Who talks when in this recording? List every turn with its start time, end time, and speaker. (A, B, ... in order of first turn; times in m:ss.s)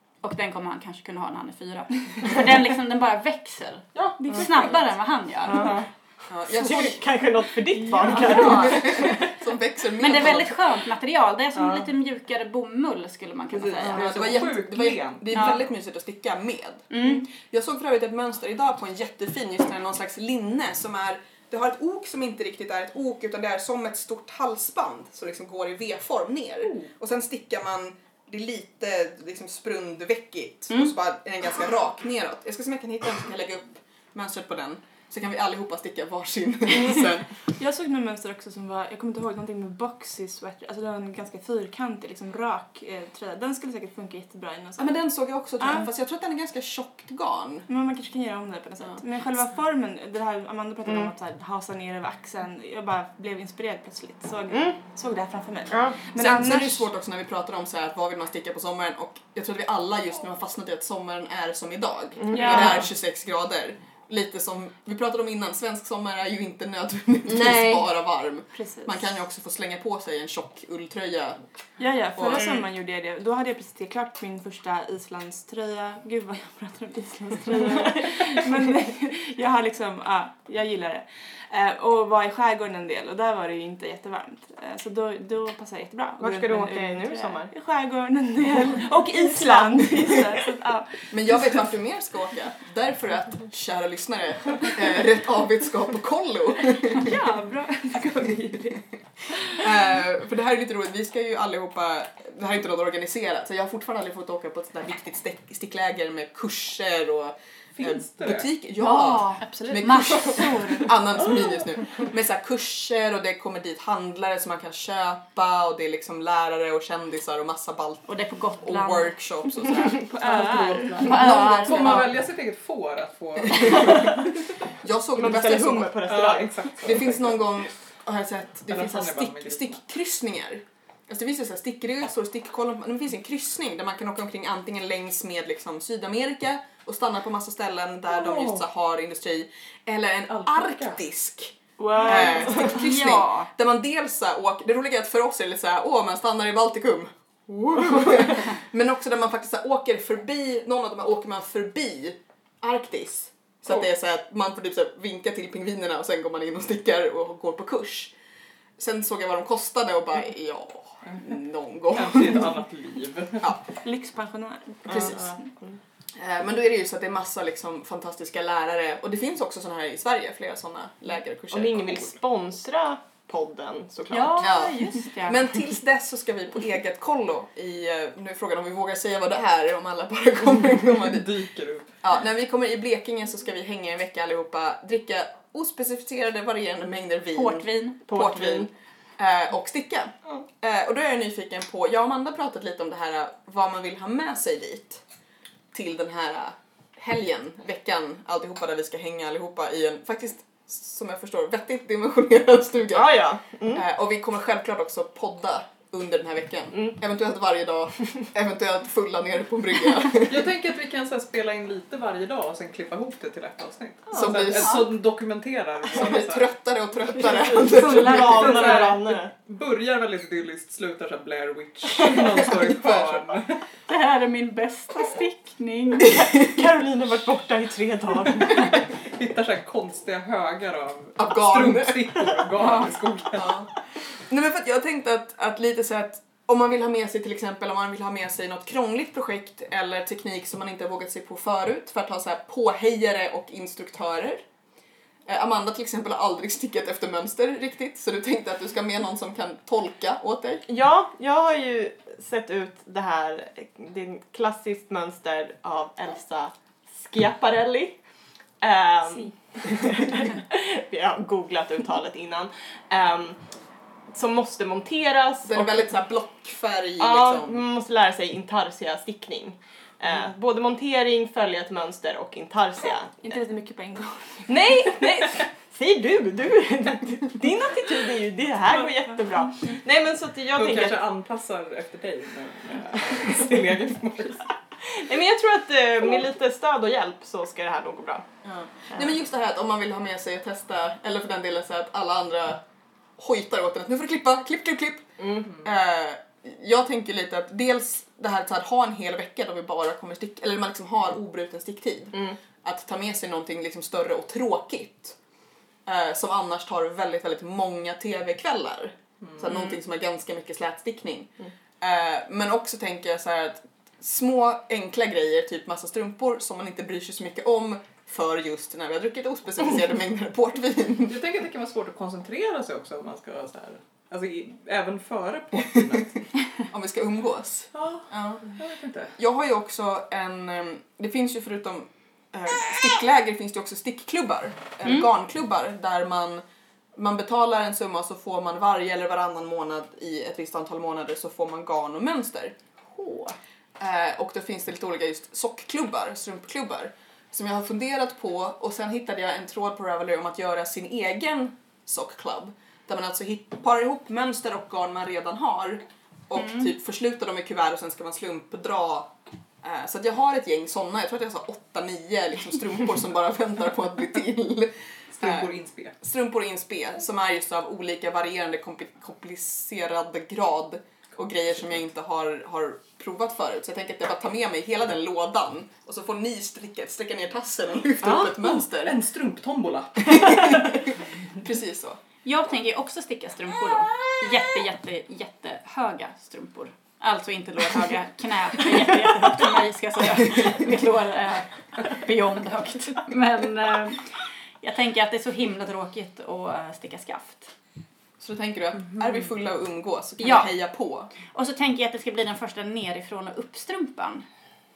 0:00.2-0:05.8 A
0:03.9-0:04.7 B
0:05.5-0:05.9 B
0:05.5-0:09.3 C
0:06.3-0:07.0 D
0:08.0-0:10.7 D
0:08.1-0:08.8 A
0:10.0-0:14.1 A
0:11.6-0:11.9 B
0:13.8-0:15.5 B
0:13.9-0:37.5 D
0:15.3-0:15.6 A
0:16.9-0:17.3 A
0:37.6-0:45.0 E
0:44.8-0:47.7 D
0:45.6-0:45.9 E
0:47.7-0:56.8 E
0:50.8-0:51.1 C
0:54.5-0:54.8 C
0:55.7-0:56.0 C
0:56.2-1:11.4 D
1:02.2-1:02.8 C
1:02.3-1:02.8 E
1:07.3-1:07.9 A
1:08.5-1:09.0 E
1:11.8-1:31.6 E
1:12.1-1:12.5 D
1:12.3-1:12.6 A
1:26.2-1:27.5 C
1:29.9-1:30.2 D
1:31.1-1:37.2 D
1:36.9-1:38.8 E
1:39.5-1:58.1 D
1:47.8-1:48.5 B
1:48.8-1:51.0 A
1:58.0-1:59.2 A
1:58.6-2:00.1 D
1:59.9-2:01.2 E
2:00.2-2:04.3 B
2:01.0-2:02.1 A
2:01.0-2:02.1 D
2:03.4-2:04.2 D
2:04.8-2:06.0 D
2:05.2-2:07.1 C
2:06.0-2:07.3 B
2:06.8-2:27.1 D
2:08.7-2:09.8 B
2:18.1-2:18.6 B
2:20.3-2:21.0 B
2:21.8-2:22.8 E
2:22.0-2:23.5 A
2:27.6-2:28.3 C
2:27.7-2:38.1 D
2:38.8-2:42.5 D
2:41.0-2:41.4 B
2:41.9-2:43.5 B
2:43.8-2:45.4 E
2:44.9-2:45.8 C
2:46.1-2:52.2 D
2:51.5-2:54.6 C
2:54.1-2:55.5 A
2:54.4-3:01.3 D
3:00.9-3:01.9 B
3:02.0-3:15.0 D
3:07.3-3:08.0 A
3:08.0-3:08.7 C
3:15.7-3:23.2 D
3:22.9-3:23.8 C
3:23.7-3:30.5 D
3:26.7-3:27.0 C
3:30.2-3:36.5 B
3:34.1-3:34.9 D
3:35.9-3:38.5 D
3:37.2-3:39.3 C
3:37.7-3:38.9 A
3:38.0-3:43.6 B
3:42.5-3:43.2 D
3:43.9-3:46.2 A
3:46.1-3:48.8 C
3:48.5-3:53.6 B
3:51.2-3:52.8 D
3:53.3-4:04.4 D
4:05.3-4:10.6 D
4:10.6-4:18.0 C
4:18.6-4:23.4 C
4:24.1-4:25.9 C
4:25.5-4:27.6 D
4:27.0-4:33.4 C
4:33.2-4:34.7 E
4:34.5-4:41.1 C
4:38.7-4:39.2 E
4:40.5-4:44.6 B
4:43.1-4:43.6 C
4:44.8-4:48.3 C
4:48.4-4:52.6 D
4:53.2-5:05.2 D
4:55.2-4:55.5 C
5:02.1-5:02.4 C
5:05.8-5:21.2 D
5:21.1-5:26.2 B
5:26.7-5:28.5 D
5:27.7-5:29.1 B
5:29.2-5:36.4 D
5:37.0-5:42.6 D
5:42.9-5:43.4 A
5:43.8-5:59.1 D
5:56.4-5:56.7 A
5:59.6-6:19.0 D
6:05.1-6:06.0 B
6:18.0-6:20.9 B
6:20.1-6:22.0 D
6:22.2-6:37.5 A
6:38.2-6:41.1 D
6:40.2-6:40.5 A
6:41.3-6:44.2 A